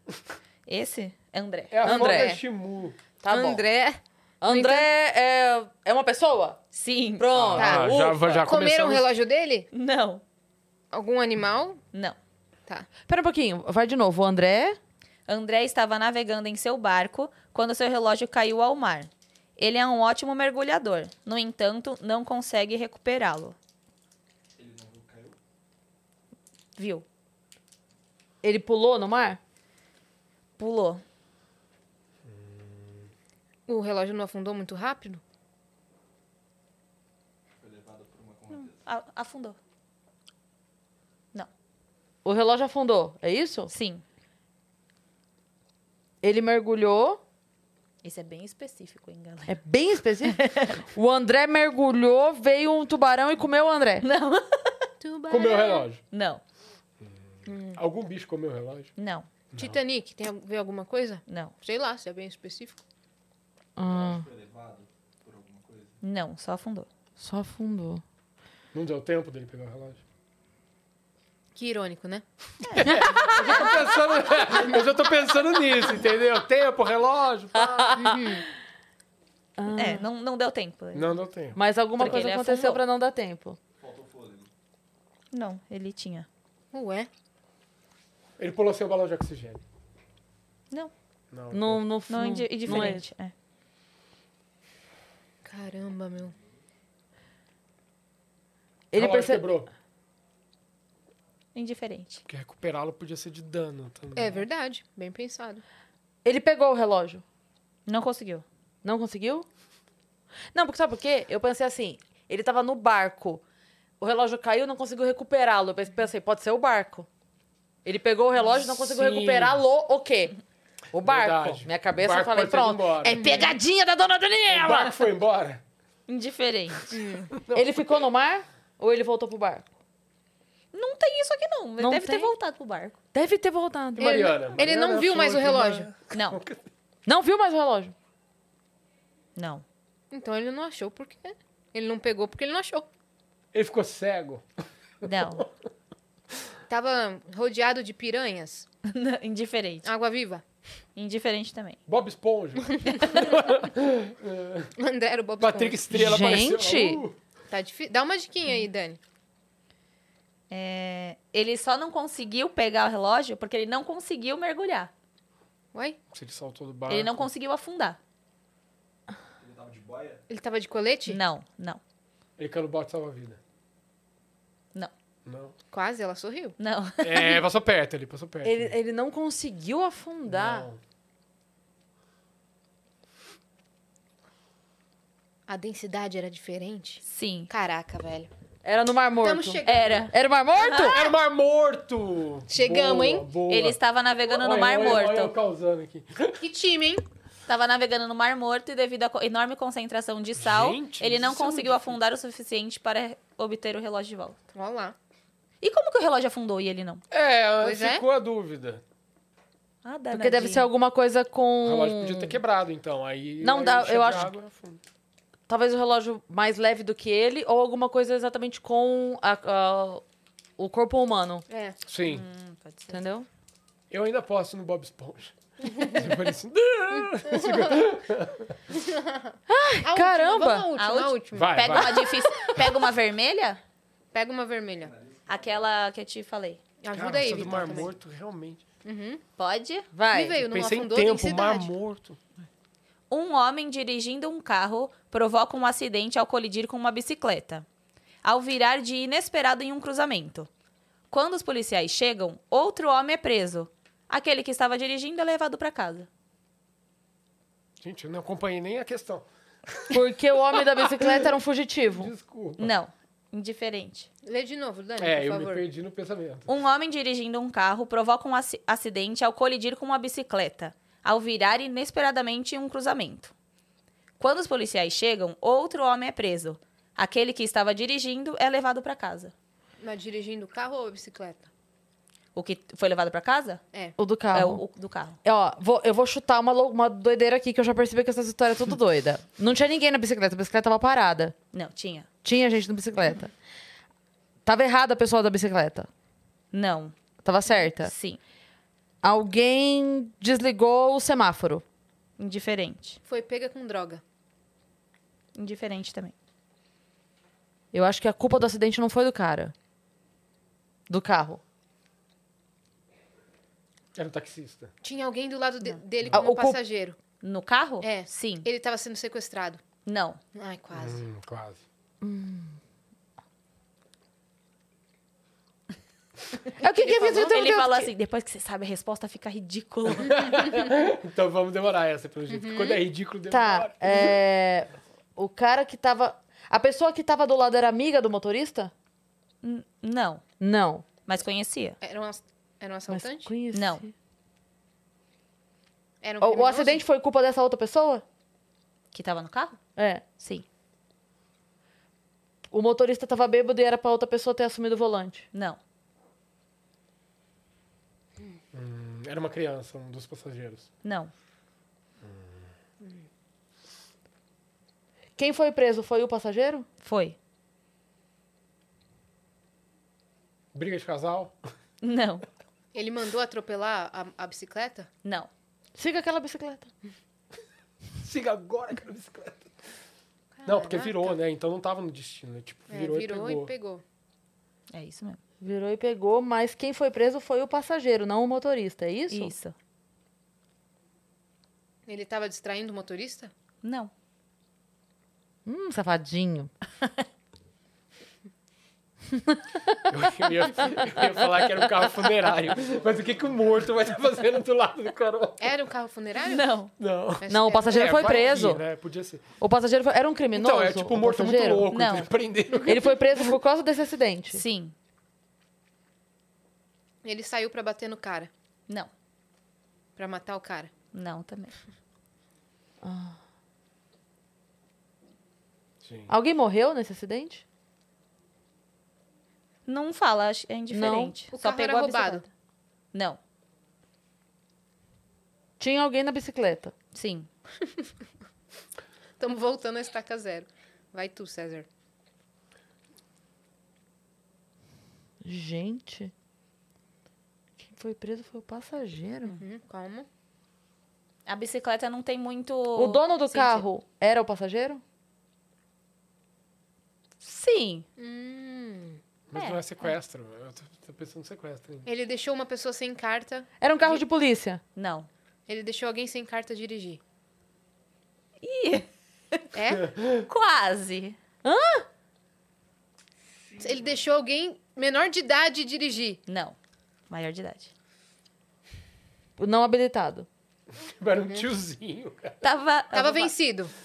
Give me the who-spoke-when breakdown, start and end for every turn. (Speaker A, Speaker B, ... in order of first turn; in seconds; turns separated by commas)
Speaker A: 0.7-1.8, Speaker B: 1.7-3.0, Speaker C: 1.8-2.4, Speaker D: 1.8-2.4, Speaker C: 3.2-3.6, Speaker D: 3.3-4.9, Speaker C: 4.4-6.6, Speaker A: 6.7-7.3, Speaker C: 7.2-8.4, Speaker B: 7.3-9.1, Speaker D: 7.5-9.7, Speaker A: 9.7-10.2, Speaker D: 10.9-11.8, Speaker C: 13.1-14.8, Speaker A: 15.3-23.6, Speaker E: 24.6-25.4, Speaker A: 26.8-27.0, Speaker C: 28.4-29.4, Speaker A: 30.6-31.0, Speaker B: 32.3-33.1, Speaker D: 33.7-35.2, Speaker E: 37.5-38.8, Speaker A: 38.5-39.6, Speaker C: 42.2-43.7, Speaker A: 43.7-44.0, Speaker C: 46.2-47.2, Speaker A: 48.0-49.5, Speaker C: 49.5-54.0, Speaker A: 50.2-50.8, Speaker A: 54.0-54.9, Speaker D: 55.0-55.9, Speaker B: 55.3-56.0, Speaker A: 56.1-56.4, Speaker D: 57.5-57.8, Speaker B: 57.7-58.9, Speaker A: 59.0-59.3, Speaker B: 59.5-59.8, Speaker D: 59.5-62.8, Speaker A: 61.3-61.5, Speaker C: 63.8-64.3, Speaker E: 63.8-66.0, Speaker A: 66.0-66.9, Speaker C: 67.2-68.0, Speaker B: 68.7-70.0, Speaker D: 71.5-72.2, Speaker A: 72.7-73.0, Speaker B: 72.7-78.0, Speaker C: 72.8-73.7, Speaker C: 77.5-78.4, Speaker D: 78.0-78.4, Speaker C: 79.6-80.1, Speaker A: 79.7-81.1, Speaker B: 80.9-81.6, Speaker C: 81.5-83.6, Speaker A: 82.0-82.8, Speaker E: 83.8-84.5, Speaker A: 85.3-86.3, Speaker D: 86.7-87.1, Speaker B: 88.4-89.6, Speaker B: 91.3-91.8, Speaker C: 91.5-93.0, Speaker A: 92.1-93.3, Speaker D: 95.4-96.3, Speaker C: 98.9-99.4, Speaker B: 98.9-99.7, Speaker A: 101.5-102.2, Speaker B: 102.3-104.5, Speaker D: 104.1-105.6, Speaker C: 106.2-107.2, Speaker A: 107.8-108.4, Speaker C: 108.8-109.5, Speaker C: 110.5-113.4, Speaker C: 114.0-117.1, Speaker C: 117.8-120.3, Speaker B: 118.6-119.6, Speaker C: 120.9-125.0, Speaker B: 121.0-123.4, Speaker D: 123.1-123.5, Speaker A: 123.2-124.6, Speaker B: 124.5-125.6, Speaker A: 126.1-127.0, Speaker D: 126.9-127.3, Speaker B: 127.4-127.8, Speaker C: 127.5-129.7, Speaker A: 130.7-133.0, Speaker C: 131.8-132.3, Speaker C: 133.1-134.3, Speaker B: 133.9-136.7, Speaker D: 134.0-135.9, Speaker A: 136.1-136.4, Speaker C: 137.1-137.9, Speaker A: 139.3-139.6, Speaker D: 140.1-142.9, Speaker B: 143.5-144.4, Speaker A: 145.0-145.4, Speaker B: 145.0-145.5, Speaker D: 146.7-148.7, Speaker A: 148.8-149.9, Speaker D: 149.8-150.4, Speaker A: 150.9-151.8, Speaker B: 151.9-154.7, Speaker A: 152.8-153.4, Speaker D: 154.8-155.8, Speaker B: 155.4-157.2, Speaker C: 155.9-157.0, Speaker D: 157.5-159.0, Speaker A: 160.5-164.9, Speaker B: 166.1-167.3, Speaker A: 166.9-168.0, Speaker E: 169.4-170.2, Speaker D: 170.3-171.2, Speaker A: 171.1-171.8, Speaker B: 172.4-173.4, Speaker B: 175.2-175.5, Speaker D: 175.7-176.5, Speaker A: 176.6-177.4, Speaker B: 177.0-178.7, Speaker C: 178.4-180.7, Speaker B: 180.3-180.8, Speaker D: 185.5-188.3, Speaker A: 187.0-187.5, Speaker C: 188.6-189.6, Speaker D: 189.2-190.1, Speaker A: 189.6-191.1, Speaker C: 190.1-191.0, Speaker B: 190.8-196.4, Speaker D: 192.5-193.2, Speaker A: 193.5-195.3, Speaker D: 196.4-197.0, Speaker A: 197.5-204.4, Speaker B: 200.3-202.0, Speaker D: 204.5-204.9, Speaker A: 205.6-207.0, Speaker B: 207.1-208.8, Speaker D: 207.6-208.0, Speaker A: 209.8-210.7, Speaker C: 210.1-212.3, Speaker B: 211.6-214.8, Speaker C: 213.4-214.3, Speaker C: 215.5-220.0, Speaker C: 220.6-221.4, Speaker D: 221.5-221.8, Speaker B: 221.8-222.2, Speaker A: 222.1-223.1, Speaker C: 222.9-223.2, Speaker B: 223.9-228.6, Speaker D: 227.3-227.6, Speaker D: 228.8-231.8, Speaker C: 229.5-230.7, Speaker A: 230.8-233.6, Speaker B: 231.3-232.0, Speaker C: 231.8-232.8, Speaker D: 234.1-234.9, Speaker E: 234.8-235.8, Speaker A: 235.3-236.6, Speaker D: 236.8-237.9, Speaker B: 236.9-238.6, Speaker D: 238.8-239.2, Speaker A: 239.4-239.9, Speaker C: 239.9-240.4, Speaker D: 240.1-241.7, Speaker B: 240.4-242.2, Speaker A: 243.1-247.7, Speaker A: 248.2-250.5, Speaker A: 251.1-256.1, Speaker B: 257.8-260.0, Speaker C: 259.9-262.1, Speaker B: 260.6-261.4, Speaker B: 261.9-262.7, Speaker A: 262.6-264.1, Speaker D: 264.2-265.6, Speaker B: 265.0-266.5, Speaker A: 266.5-273.3, Speaker A: 274.2-279.3, Speaker D: 279.8-281.5, Speaker A: 282.3-283.6, Speaker C: 284.0-284.6, Speaker A: 284.3-285.2, Speaker C: 285.2-291.3, Speaker A: 291.5-292.1, Speaker C: 292.2-293.3, Speaker C: 294.4-295.9, Speaker A: 296.5-296.9, Speaker C: 297.2-297.9, Speaker A: 297.5-298.2, Speaker C: 299.0-301.6, Speaker A: 302.2-303.0, Speaker D: 303.1-304.0, Speaker A: 305.3-306.1, Speaker C: 307.7-309.5, Speaker C: 310.9-311.4, Speaker B: 313.9-314.7, Speaker D: 314.8-317.0, Speaker C: 316.1-316.6, Speaker A: 317.2-318.5, Speaker D: 317.8-319.6, Speaker A: 319.9-320.2, Speaker D: 320.3-321.0, Speaker B: 320.7-321.6, Speaker C: 322.0-322.6, Speaker C: 326.6-327.6, Speaker D: 326.6-327.9, Speaker A: 326.9-330.6, Speaker B: 329.9-334.2, Speaker D: 332.3-332.8, Speaker C: 333.3-338.7, Speaker A: 339.4-340.2, Speaker C: 340.4-340.9, Speaker A: 341.0-341.8, Speaker D: 341.8-343.3, Speaker C: 342.9-343.9, Speaker A: 343.5-343.8, Speaker D: 346.0-346.8, Speaker C: 346.2-348.0, Speaker A: 348.9-349.6, Speaker C: 349.8-350.1, Speaker A: 350.1-350.4, Speaker C: 352.5-355.2, Speaker A: 355.3-355.6, Speaker B: 358.5-360.7, Speaker A: 360.8-361.1, Speaker B: 362.0-362.5, Speaker C: 365.2-366.6, Speaker A: 366.8-367.2, Speaker B: 370.5-371.3, Speaker A: 371.8-372.2, Speaker D: 372.7-374.9, Speaker A: 375.0-375.3, Speaker C: 375.7-376.7, Speaker B: 378.0-379.5, Speaker D: 380.4-381.2, Speaker B: 380.4-383.5, Speaker D: 382.7-383.8, Speaker A: 384.7-385.2, Speaker C: 385.4-389.3, Speaker A: 389.1-389.5, Speaker D: 391.9-393.3, Speaker A: 393.6-393.9, Speaker C: 395.4-396.5, Speaker C: 399.1-399.9, Speaker B: 399.9-405.5, Speaker C: 400.5-401.1, Speaker D: 405.4-406.5, Speaker A: 406.2-406.7, Speaker B: 406.8-409.2, Speaker D: 407.2-408.4, Speaker C: 407.3-408.6, Speaker C: 409.4-411.7, Speaker B: 410.3-413.1, Speaker A: 411.7-412.1, Speaker C: 412.6-414.4, Speaker A: 414.3-414.7, Speaker D: 417.0-418.3, Speaker D: 420.0-420.7, Speaker A: 420.9-421.5, Speaker C: 422.8-423.2, Speaker B: 425.8-426.1, Speaker C: 426.1-427.4, Speaker A: 429.6-432.3, Speaker C: 430.7-431.1, Speaker D: 431.3-432.2, Speaker A: 432.9-433.2, Speaker C: 435.6-436.7, Speaker A: 436.9-437.3, Speaker D: 439.2-441.7, Speaker C: 445.2-446.1, Speaker C: 447.6-449.4, Speaker D: 449.4-450.1, Speaker A: 451.2-453.6, Speaker C: 452.7-454.8, Speaker A: 457.2-457.9, Speaker D: 458.0-459.0, Speaker B: 459.3-461.9, Speaker A: 459.3-459.6, Speaker D: 461.8-463.5, Speaker C: 463.6-464.6, Speaker A: 464.7-465.1, Speaker D: 465.5-467.0, Speaker A: 468.4-469.4, Speaker D: 469.5-469.9, Speaker B: 469.7-470.3, Speaker A: 470.3-471.2, Speaker C: 471.4-471.9, Speaker D: 473.6-476.2, Speaker A: 476.3-476.6, Speaker A: 477.1-477.7, Speaker C: 479.4-480.3, Speaker B: 480.7-482.4, Speaker A: 482.4-483.3, Speaker D: 482.9-483.7